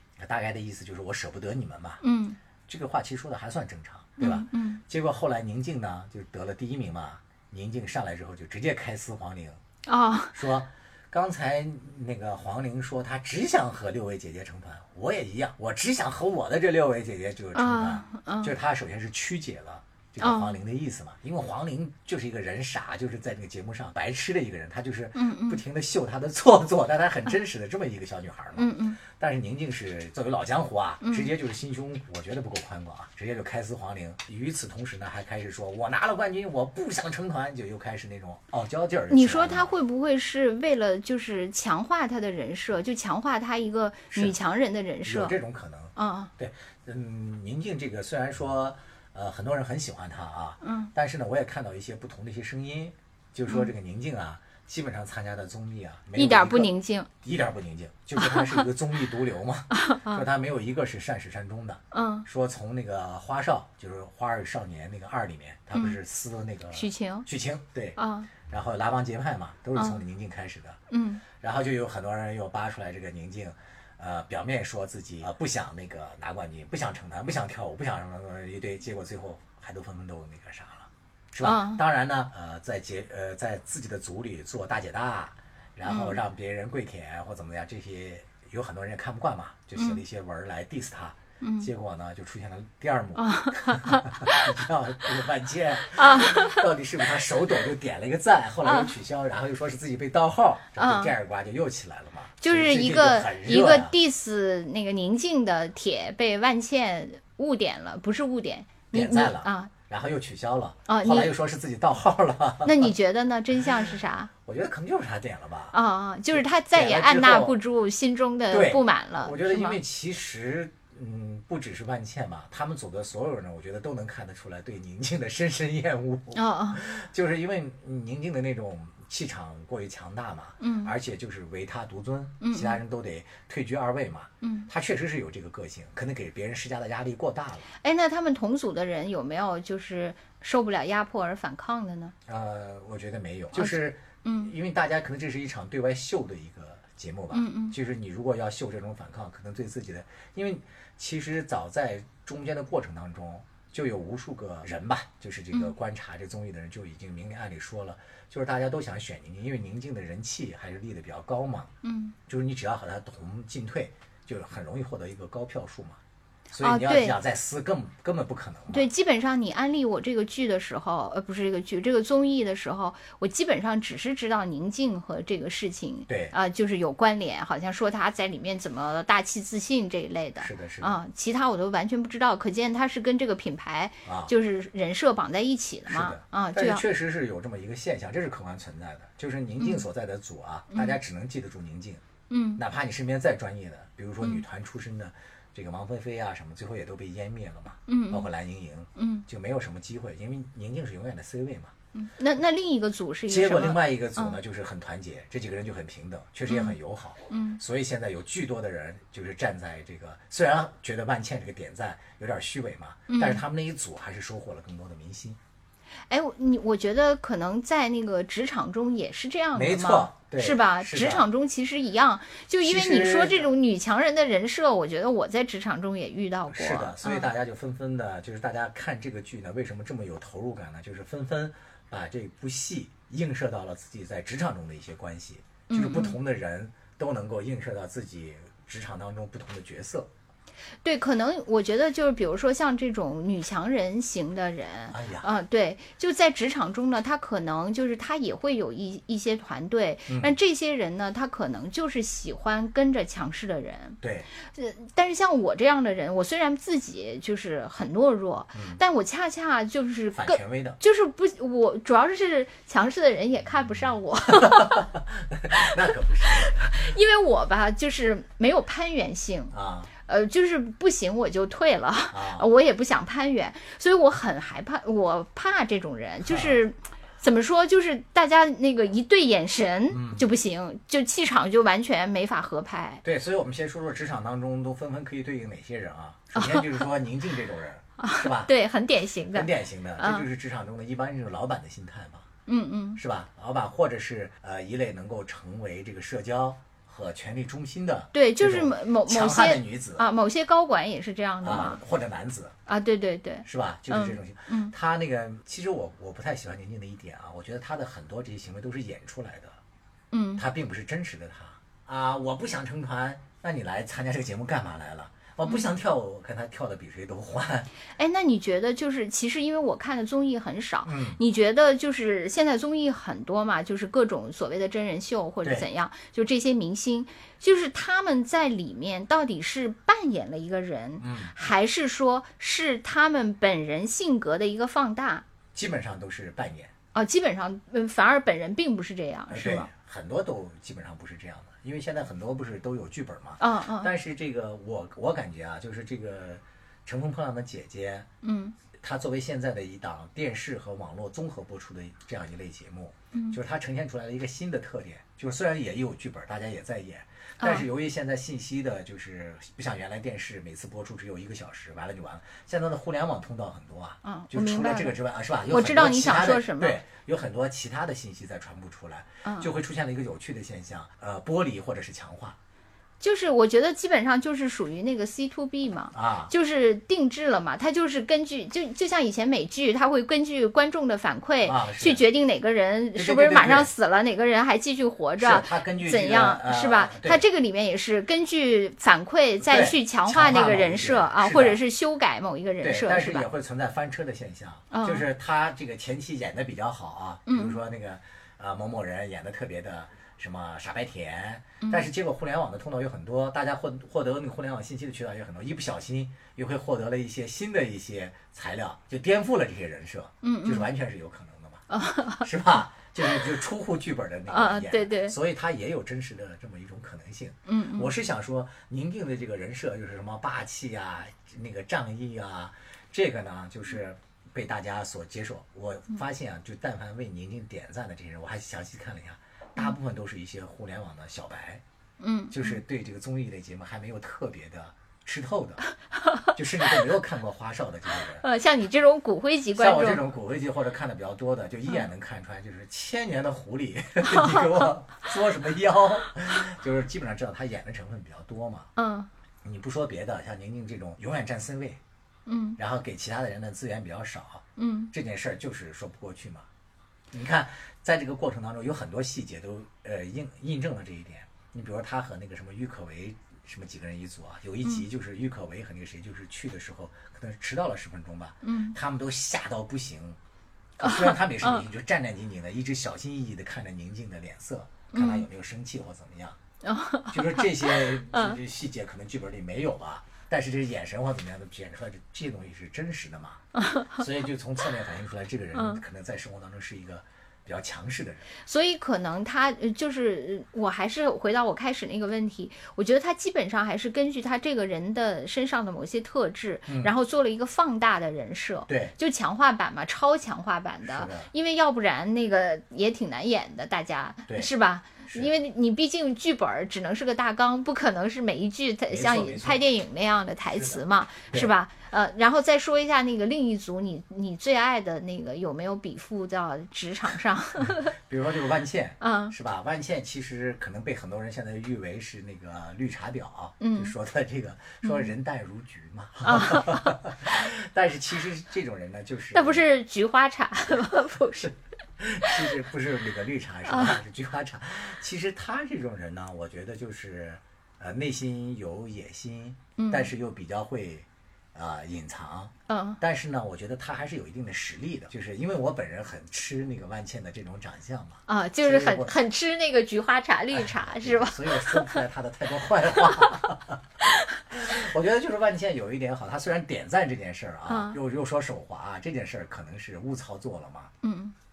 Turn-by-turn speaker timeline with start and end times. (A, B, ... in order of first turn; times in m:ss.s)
0:00.2-0:02.0 A
0:02.0-0:02.4 B
0:02.7-0:09.6 A
0:04.2-0:04.8 B
0:09.9-0:10.4 B
0:10.3-0:39.7 A
0:17.6-0:18.5 B
0:20.2-0:20.6 B
0:25.2-0:25.6 B
0:28.6-0:29.0 B
0:31.0-0:31.3 B
0:39.1-0:45.4 B
0:45.0-1:10.8 A
0:46.0-0:46.3 B
0:50.6-0:50.9 B
0:56.2-0:57.1 B
0:58.2-0:58.7 B
0:59.7-1:00.2 B
1:01.9-1:02.3 B
1:06.7-1:07.3 B
1:08.0-1:08.3 B
1:10.9-1:11.2 B
1:11.4-1:44.0 A
1:21.4-1:21.8 B
1:25.9-1:26.2 B
1:31.4-1:31.7 B
1:33.2-1:34.4 B
1:35.9-1:36.6 B
1:38.6-1:38.9 B
1:40.8-1:41.1 B
1:42.4-1:49.7 B
1:48.9-1:52.9 A
1:50.9-1:51.3 B
1:52.6-1:54.3 B
1:54.4-1:55.8 A
1:55.7-1:59.8 B
1:56.3-1:57.6 A
1:58.5-2:17.7 A
2:06.3-2:06.8 B
2:10.6-2:10.9 B
2:12.4-2:12.8 B
2:14.4-2:14.7 B
2:17.8-2:22.1 B
2:22.3-2:41.7 A
2:23.5-2:24.5 B
2:27.3-2:27.8 B
2:41.8-2:42.2 B
2:42.3-2:46.0 A
2:46.5-2:48.9 A
2:46.6-2:47.2 B
2:48.7-3:06.8 B
2:56.1-2:56.4 A
3:00.4-3:01.0 A
3:04.1-3:04.3 A
3:05.9-3:12.0 A
3:09.6-3:09.8 B
3:10.7-3:11.0 B
3:12.3-3:12.6 B
3:12.6-3:21.7 A
3:17.9-3:18.3 B
3:19.0-3:19.2 B
3:22.0-3:24.4 B
3:23.3-3:35.4 A
3:26.5-3:26.8 B
3:27.3-3:27.6 B
3:33.1-3:33.4 B
3:36.1-3:47.3 B
3:39.6-3:41.3 A
3:42.6-3:43.5 A
3:46.5-4:00.1 A
3:55.7-3:56.2 B
4:00.8-4:14.0 B
4:04.9-4:05.3 A
4:10.1-4:10.4 A
4:14.0-4:14.3 A
4:14.5-4:24.9 B
4:18.5-4:18.8 A
4:20.2-4:20.8 A
4:24.4-4:27.0 A
4:26.2-4:43.0 B
4:29.5-4:29.9 A
4:32.1-4:32.5 A
4:36.2-4:36.6 A
4:39.9-4:40.3 A
4:43.0-4:48.5 A
4:46.4-4:46.9 B
4:48.0-4:50.3 B
4:49.3-4:52.3 A
4:52.5-4:53.0 B
4:53.0-5:00.0 A
4:58.1-5:01.8 B
5:01.4-5:02.6 A
5:02.7-5:04.7 B
5:03.4-5:09.6 A
5:10.1-5:10.4 B
5:10.4-5:17.7 A
5:18.0-5:35.2 B
5:20.8-5:21.2 A
5:31.0-5:31.3 A
5:35.5-5:36.7 A
5:36.9-5:39.7 B
5:39.3-5:48.1 A
5:43.4-5:43.9 B
5:48.2-5:48.6 B
5:48.8-6:12.4 A
5:57.4-5:57.7 B
6:04.0-6:05.0 B
6:05.5-6:06.8 B
6:09.2-6:09.5 B
6:13.0-6:33.3 B
6:15.9-6:16.3 A
6:21.4-6:22.0 A
6:23.0-6:23.7 A
6:25.2-6:27.2 A
6:29.5-6:31.6 A
6:32.6-6:51.7 A
6:34.7-6:35.1 B
6:37.3-6:37.6 B
6:41.6-6:41.9 B
6:50.2-6:50.7 B
6:51.7-6:52.3 B
6:52.2-7:11.6 A
6:54.3-6:55.2 B
6:57.5-6:57.9 B
7:12.0-7:12.6 B
7:12.3-7:15.6 A
7:16.3-7:18.2 A
7:18.2-7:20.0 B
7:19.6-7:28.7 A
7:24.1-7:24.5 B
7:28.8-7:29.1 B
7:29.4-7:31.8 A
7:32.3-7:32.6 B
7:32.6-7:36.5 A
7:34.6-7:34.9 B
7:37.1-7:50.2 A
7:48.4-7:48.8 B
7:50.8-7:51.6 B
7:50.8-7:56.4 A
7:54.9-7:55.3 B
7:56.6-7:58.4 B
7:57.1-8:08.3 A
8:03.6-8:04.0 B
8:05.6-8:05.8 B
8:08.4-8:37.9 B
8:16.7-8:16.9 A
8:18.7-8:18.9 A
8:20.8-8:21.3 A
8:25.0-8:25.3 A
8:28.9-8:29.6 A
8:30.5-8:31.5 A
8:37.7-8:49.6 A
8:39.0-8:39.3 B
8:43.6-8:43.9 B
8:44.8-8:45.1 B
8:46.2-8:47.0 B
8:49.3-8:51.5 B
8:52.0-9:09.1 A
8:53.7-8:54.0 B
8:59.8-9:00.1 B
9:02.7-9:03.0 B
9:08.3-9:12.0 B
9:10.6-9:13.8 A
9:13.0-9:13.3 B
9:14.5-9:20.9 A
9:17.7-9:18.0 B
9:21.0-9:21.3 B